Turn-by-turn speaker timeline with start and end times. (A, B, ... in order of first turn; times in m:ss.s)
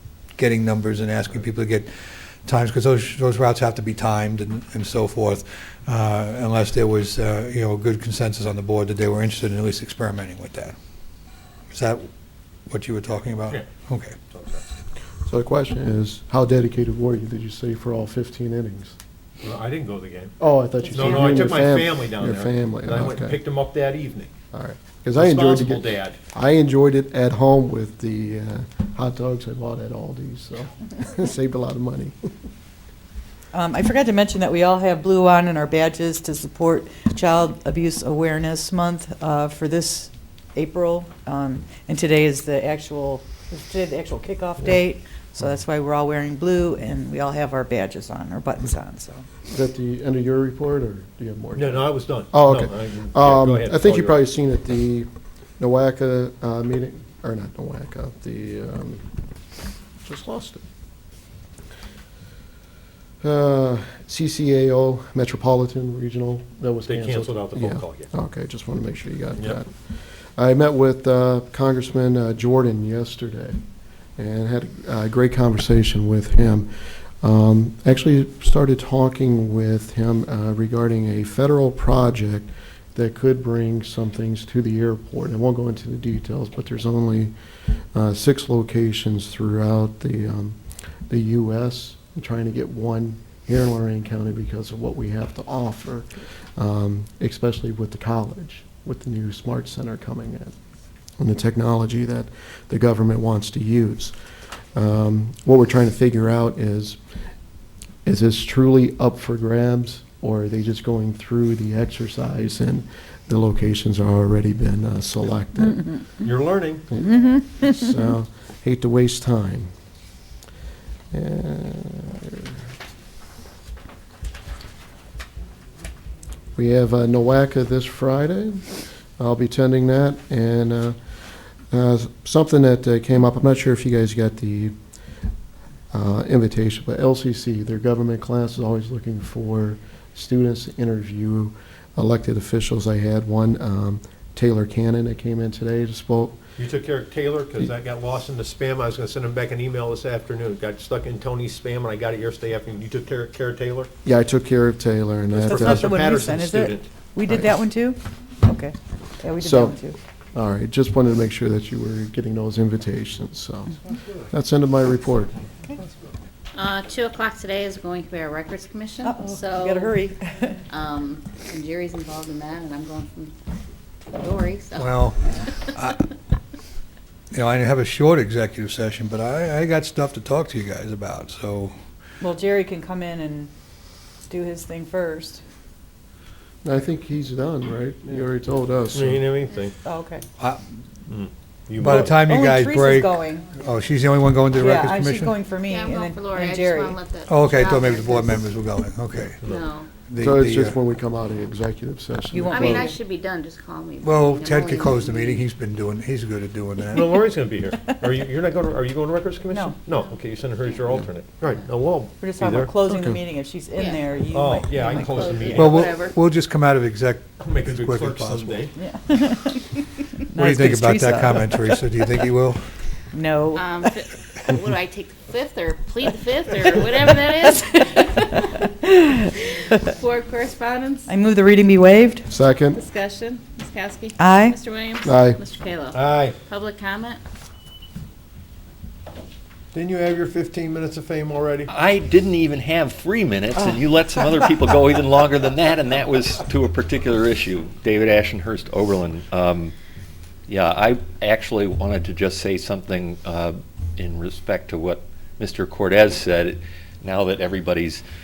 0:00.4-0:10.8 A
0:11.7-0:12.1 A
0:12.7-0:14.2 A
0:14.3-0:14.6 B
0:15.2-0:19.0 C
0:19.4-0:24.3 B
0:20.4-0:23.4 C
0:24.5-0:32.2 C
0:25.2-0:26.2 B
0:33.5-0:49.3 D
0:49.5-0:55.1 C
0:51.6-0:54.3 B
0:55.6-0:59.0 C
1:00.0-1:00.6 C
1:03.2-1:13.6 C
1:06.9-1:08.1 B
1:14.2-1:16.7 C
1:17.2-1:27.3 C
1:27.9-1:30.6 C
1:31.1-1:40.5 C
1:41.2-1:44.1 C
1:44.8-1:47.0 C
1:48.0-1:55.9 C
1:56.2-1:56.8 B
1:56.9-1:59.7 C
1:57.1-1:57.8 D
2:01.1-2:02.5 C
2:06.6-2:11.0 C
2:11.7-2:14.8 C
2:15.9-2:26.4 C
2:26.6-2:33.9 B
2:34.0-2:36.0 C
2:35.3-2:36.9 B
2:35.4-2:40.0 D
2:37.2-2:37.6 C
2:39.4-2:39.8 C
2:40.3-2:45.3 C
2:46.5-2:50.0 E
2:49.0-2:50.6 D
2:50.7-2:53.3 E
2:54.1-2:55.5 E
2:54.8-2:56.1 A
2:57.3-3:01.7 A
3:02.2-3:03.5 D
3:04.2-3:05.4 D
3:06.6-3:09.3 C
3:08.9-3:09.8 B
3:09.8-3:10.2 D
3:10.4-3:10.7 A
3:11.1-3:12.2 B
3:11.8-3:15.4 A
3:11.8-3:13.4 D
3:14.6-3:17.0 D
3:15.7-3:18.5 E
3:17.3-3:19.4 A
3:19.4-3:19.6 B
3:19.4-3:19.9 E
3:19.9-3:20.8 A
3:20.2-3:22.9 C
3:22.3-3:23.0 D
3:22.5-3:25.5 E
3:24.0-3:27.2 A
3:26.9-3:32.7 B
3:29.5-3:29.8 D
3:29.9-3:31.0 E
3:32.2-3:35.6 D
3:32.9-3:33.2 C
3:33.8-3:34.1 E
3:34.3-3:36.0 B
3:34.8-3:36.2 E
3:35.5-3:38.6 A
3:37.4-3:38.7 B
3:38.8-3:41.8 D
3:40.4-3:42.6 A
3:43.1-3:43.7 D
3:43.6-3:48.7 E
3:49.4-3:51.1 E
3:51.1-3:52.3 D
3:52.3-3:52.8 C
3:52.6-3:57.2 E
3:54.2-3:54.6 D
3:55.0-3:55.4 C
3:55.9-3:56.4 B
3:59.7-4:01.7 B
4:01.7-4:09.7 F
4:10.5-4:18.0 F